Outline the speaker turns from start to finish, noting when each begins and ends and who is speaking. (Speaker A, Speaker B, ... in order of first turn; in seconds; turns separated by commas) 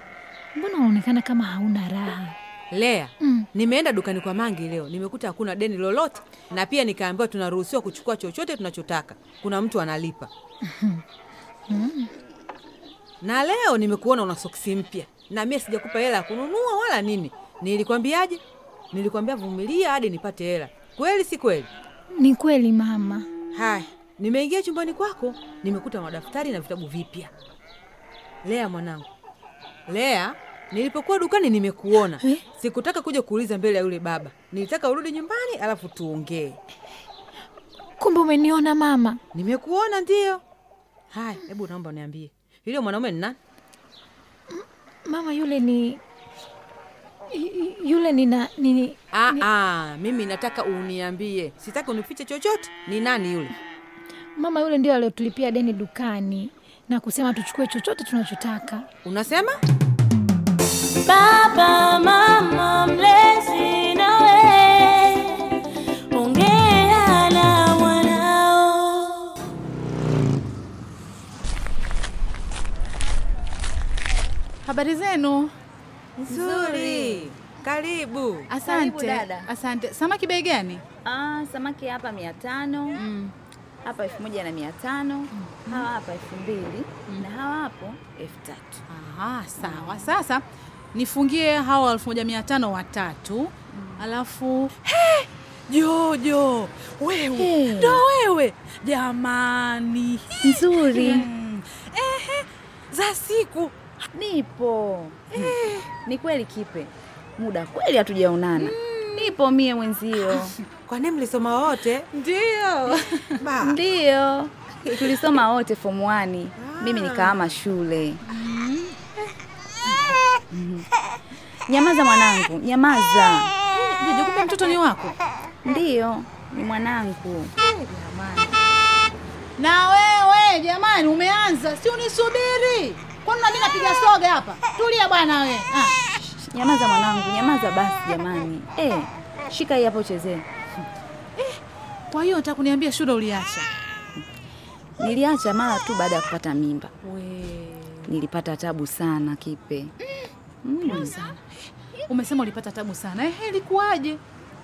Speaker A: 0.6-2.3, Speaker B: 2.7-10.3, Speaker A: 11.7-12.1, Speaker B: 13.2-21.7, Speaker A: 22.1-23.2, Speaker B: 23.5-27.3, Speaker B: 28.4-29.1, Speaker B: 29.9-36.6, Speaker A: 38.0-39.2, Speaker B: 39.3-40.4, Speaker B: 41.1-43.4, Speaker A: 44.5-46.0, Speaker A: 47.4-48.9, Speaker B: 49.1-53.5, Speaker A: 54.4-58.8, Speaker B: 59.0-59.6, Speaker C: 61.0-65.3, Speaker C: 66.1-69.3, Speaker D: 74.6-75.5, Speaker B: 76.2-78.5, Speaker E: 76.2-77.3, Speaker D: 78.5-80.8, Speaker E: 78.6-79.5, Speaker E: 81.0-83.0, Speaker D: 83.0-83.3, Speaker E: 83.8-88.8, Speaker D: 85.5-85.8, Speaker D: 88.9-90.4, Speaker E: 89.6-90.1, Speaker D: 90.9-94.8, Speaker E: 93.7-94.0, Speaker D: 95.7-102.4, Speaker B: 96.8-97.2, Speaker E: 97.3-98.0, Speaker E: 100.4-101.3, Speaker B: 103.0-103.7, Speaker D: 103.2-103.5, Speaker E: 104.1-105.5, Speaker D: 105.3-105.8, Speaker E: 106.0-110.5, Speaker D: 108.6-109.3, Speaker B: 110.8-113.8, Speaker E: 113.6-118.2, Speaker B: 116.6-117.4, Speaker D: 118.3-119.0, Speaker E: 120.5-120.8, Speaker E: 121.7-123.5, Speaker D: 123.7-125.2, Speaker E: 125.6-127.5, Speaker D: 127.6-128.6, Speaker D: 129.6-135.9, Speaker E: 136.0-140.4, Speaker D: 142.1-143.7, Speaker E: 145.0-146.9, Speaker D: 147.0-148.1, Speaker E: 148.1-149.9, Speaker E: 150.6-151.1, Speaker D: 150.8-151.4, Speaker D: 152.1-154.2